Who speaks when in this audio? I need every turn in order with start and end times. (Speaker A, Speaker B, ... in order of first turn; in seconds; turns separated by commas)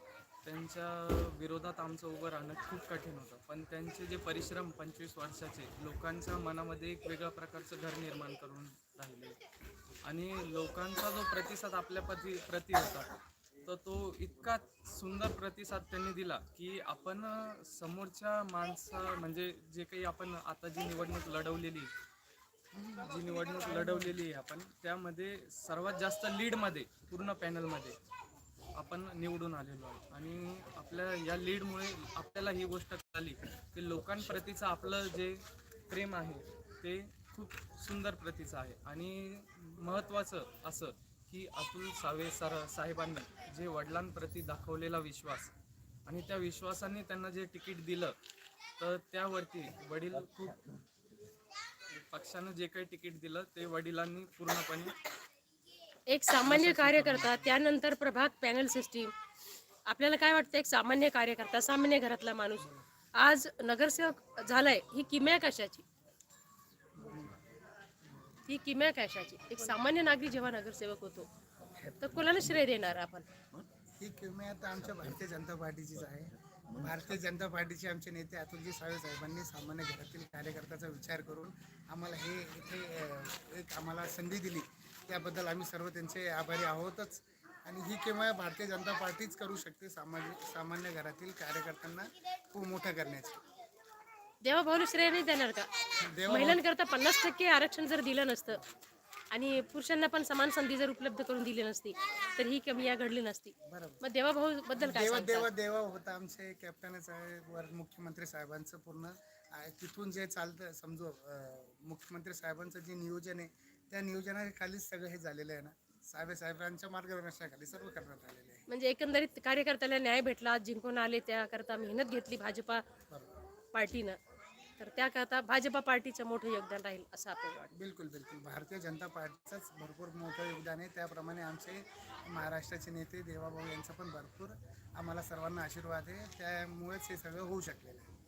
Speaker A: 0.4-9.4, Speaker A: 10.0-13.1, Speaker A: 13.6-21.9, Speaker B: 22.8-23.1, Speaker A: 23.0-28.0, Speaker B: 23.9-24.1, Speaker A: 28.7-45.5, Speaker A: 46.0-48.2, Speaker A: 48.8-50.8, Speaker A: 51.9-55.0, Speaker C: 56.1-59.1, Speaker B: 56.5-57.3, Speaker A: 56.6-57.6, Speaker C: 59.9-65.8, Speaker B: 67.0-67.3, Speaker C: 68.5-71.3, Speaker C: 71.9-73.3, Speaker B: 74.0-93.4, Speaker C: 94.4-95.7, Speaker B: 96.0-96.6, Speaker C: 96.3-98.6, Speaker C: 99.3-105.5, Speaker B: 103.6-104.0, Speaker B: 104.7-118.7, Speaker C: 118.7-122.8, Speaker B: 123.1-123.4, Speaker C: 123.7-124.2, Speaker C: 124.8-127.7, Speaker B: 127.7-138.1